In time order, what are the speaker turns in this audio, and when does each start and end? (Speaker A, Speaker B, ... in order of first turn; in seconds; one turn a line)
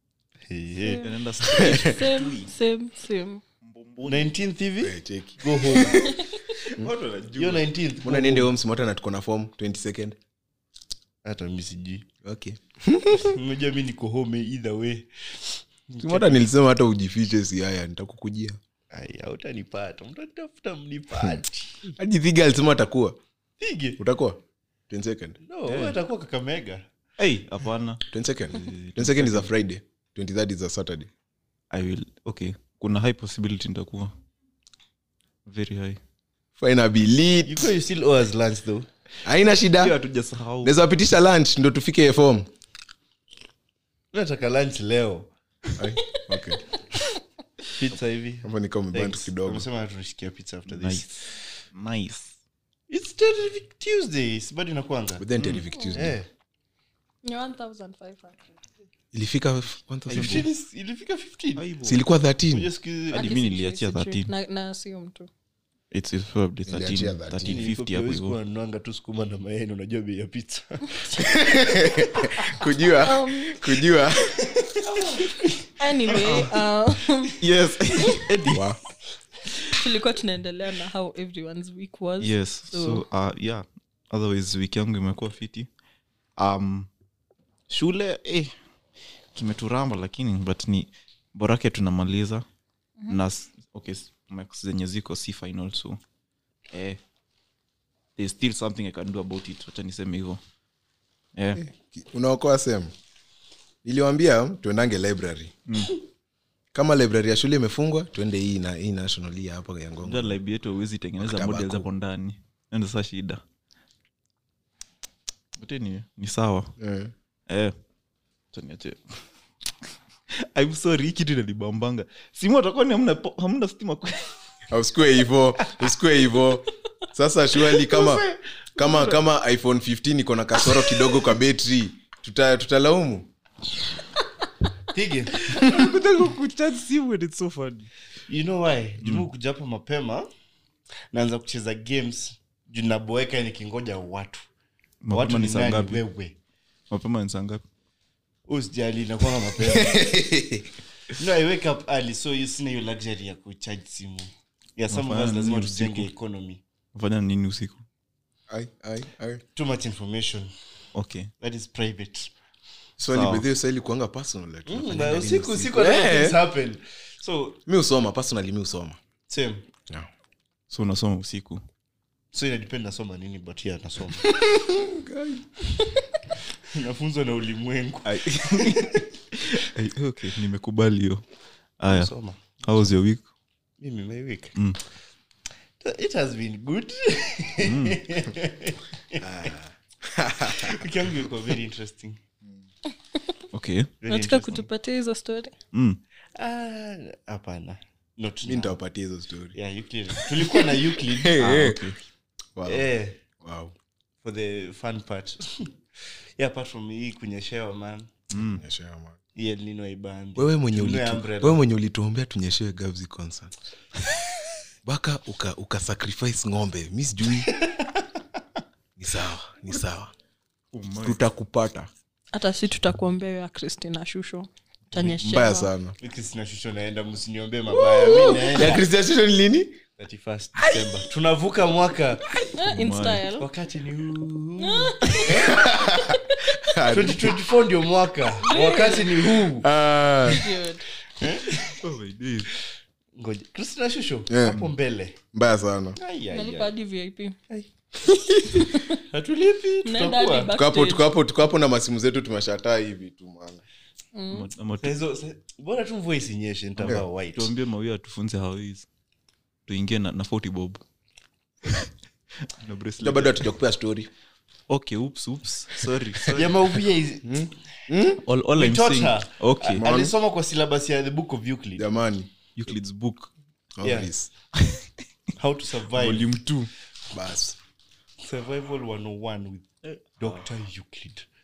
Speaker A: 0.5-1.1
Speaker B: 0.8-3.4
Speaker C: 1.0-2.5
Speaker D: 1.5-2.0
Speaker C: 3.6-4.3
Speaker A: 4.0-6.2
Speaker D: 4.8-6.1
Speaker C: 6.6-7.7
Speaker A: 7.3-8.5
Speaker D: 8.0-10.2
Speaker A: 11.2-12.1
Speaker D: 12.2-13.3
Speaker A: 13.2-16.4
Speaker D: 16.0-18.6
Speaker A: 18.9-21.9
Speaker D: 21.9-23.2
Speaker A: 23.6-24.0
Speaker D: 24.0-25.4
Speaker A: 25.4-26.9
Speaker C: 25.7-25.9
Speaker C: 27.2-29.5
Speaker D: 28.1-31.1
Speaker C: 31.7-34.1
Speaker C: 35.4-36.0
Speaker D: 36.6-37.7
Speaker A: 37.5-38.9
Speaker D: 39.2-40.0
Speaker C: 39.8-40.7
Speaker D: 40.6-42.5
Speaker A: 44.1-45.3
Speaker D: 45.8-46.6
Speaker A: 47.7-51.4
Speaker D: 48.4-49.6
Speaker C: 50.7-51.1
Speaker C: 51.7-52.4
Speaker A: 52.9-55.2
Speaker D: 55.2-56.1
Speaker C: 55.4-55.6
Speaker A: 55.9-56.3
Speaker B: 57.2-58.5
Speaker D: 59.1-60.5
Speaker A: 60.1-61.6
Speaker C: 60.1-60.4
Speaker C: 61.5-62.0
Speaker D: 61.8-62.7
Speaker A: 62.5-63.3
Speaker C: 63.1-64.3
Speaker B: 63.1-65.3
Speaker C: 65.9-68.4
Speaker D: 66.7-67.6
Speaker A: 67.5-71.2
Speaker D: 71.2-74.5
Speaker B: 73.0-73.7
Speaker A: 74.5-75.6
Speaker B: 75.8-77.3
Speaker C: 76.2-76.5
Speaker C: 77.4-78.7
Speaker D: 78.5-78.8
Speaker B: 79.7-83.0
Speaker C: 82.2-85.7
Speaker C: 86.4-86.9
Speaker C: 87.7-88.5
Speaker C: 89.3-92.5
Speaker C: 93.1-96.0
Speaker C: 96.7-97.0
Speaker C: 98.2-100.4
Speaker C: 101.3-101.6
Speaker D: 101.5-102.9
Speaker D: 103.8-105.5
Speaker C: 105.7-106.0
Speaker D: 106.7-110.4
Speaker C: 110.0-113.4
Speaker D: 111.2-111.9
Speaker C: 115.6-116.7
Speaker D: 116.8-117.1
Speaker C: 117.5-117.7
Speaker C: 118.5-119.2
Speaker C: 120.3-124.4
Speaker D: 124.7-133.3
Speaker C: 127.7-129.2
Speaker A: 134.9-135.4
Speaker C: 135.4-137.9
Speaker D: 135.5-135.8
Speaker A: 138.3-140.3
Speaker A: 141.1-144.5
Speaker C: 145.0-146.0
Speaker A: 145.1-146.4
Speaker C: 146.9-147.6
Speaker A: 148.5-150.1
Speaker D: 149.6-150.7
Speaker A: 151.2-156.6
Speaker C: 154.9-156.1
Speaker C: 156.9-157.8
Speaker D: 158.5-159.4
Speaker A: 159.5-160.5
Speaker C: 160.9-161.3
Speaker A: 161.4-162.3
Speaker D: 163.0-166.4
Speaker C: 163.1-163.4
Speaker A: 164.7-167.6
Speaker D: 167.7-169.0
Speaker A: 169.3-169.7
Speaker C: 170.7-171.6
Speaker A: 172.3-174.3
Speaker D: 174.2-175.7
Speaker A: 176.7-179.1
Speaker C: 178.0-181.2
Speaker C: 181.8-183.2
Speaker A: 181.9-182.6
Speaker A: 183.8-184.5
Speaker A: 185.8-189.5
Speaker C: 187.6-188.0
Speaker D: 189.2-190.8
Speaker A: 190.5-192.2
Speaker C: 193.5-193.9
Speaker A: 194.0-194.7
Speaker B: 194.1-195.5
Speaker C: 195.7-196.0
Speaker A: 196.3-198.8
Speaker D: 198.4-199.6
Speaker A: 199.5-201.4
Speaker D: 200.3-201.9
Speaker C: 201.4-202.0
Speaker D: 202.6-202.9
Speaker A: 202.6-203.2
Speaker D: 203.4-203.7
Speaker A: 204.2-205.8
Speaker A: 206.4-208.1
Speaker C: 208.3-208.6
Speaker D: 208.3-209.2
Speaker A: 209.3-211.6
Speaker D: 210.3-213.6
Speaker D: 214.8-217.5
Speaker A: 217.4-218.0
Speaker D: 219.0-220.1
Speaker C: 220.7-221.2
Speaker D: 221.0-221.9
Speaker B: 222.3-225.7
Speaker D: 225.0-225.9
Speaker A: 226.0-228.8
Speaker D: 227.9-229.8
Speaker B: 228.0-228.7
Speaker A: 230.0-232.3
Speaker D: 230.6-230.9
Speaker B: 232.5-233.5
Speaker C: 232.6-233.3
Speaker A: 233.3-235.6
Speaker B: 234.6-236.6
Speaker D: 235.2-237.4
Speaker A: 236.8-239.7
Speaker B: 238.4-239.3
Speaker D: 239.5-240.4
Speaker B: 240.2-240.8
Speaker A: 241.2-241.8
Speaker C: 241.8-242.5
Speaker A: 243.2-245.2
Speaker D: 244.3-244.7
Speaker D: 245.3-246.0
Speaker A: 245.9-246.7
Speaker B: 246.3-247.3
Speaker B: 248.5-249.0
Speaker A: 249.0-250.5
Speaker B: 249.8-251.1
Speaker D: 250.5-253.6
Speaker B: 254.1-254.5
Speaker C: 254.3-254.9
Speaker A: 254.8-257.5
Speaker C: 257.3-258.9
Speaker C: 259.7-260.8
Speaker C: 262.5-263.5
Speaker D: 263.0-264.1
Speaker C: 264.7-266.7
Speaker A: 266.3-267.5
Speaker D: 267.2-268.2
Speaker C: 268.2-269.9
Speaker A: 268.5-271.8
Speaker D: 269.8-270.1
Speaker D: 271.8-272.3
Speaker C: 272.6-273.3
Speaker D: 273.8-274.3
Speaker A: 273.8-274.1
Speaker C: 274.5-274.9
Speaker A: 275.4-276.3
Speaker C: 275.9-276.7
Speaker D: 277.1-277.6
Speaker A: 278.2-281.2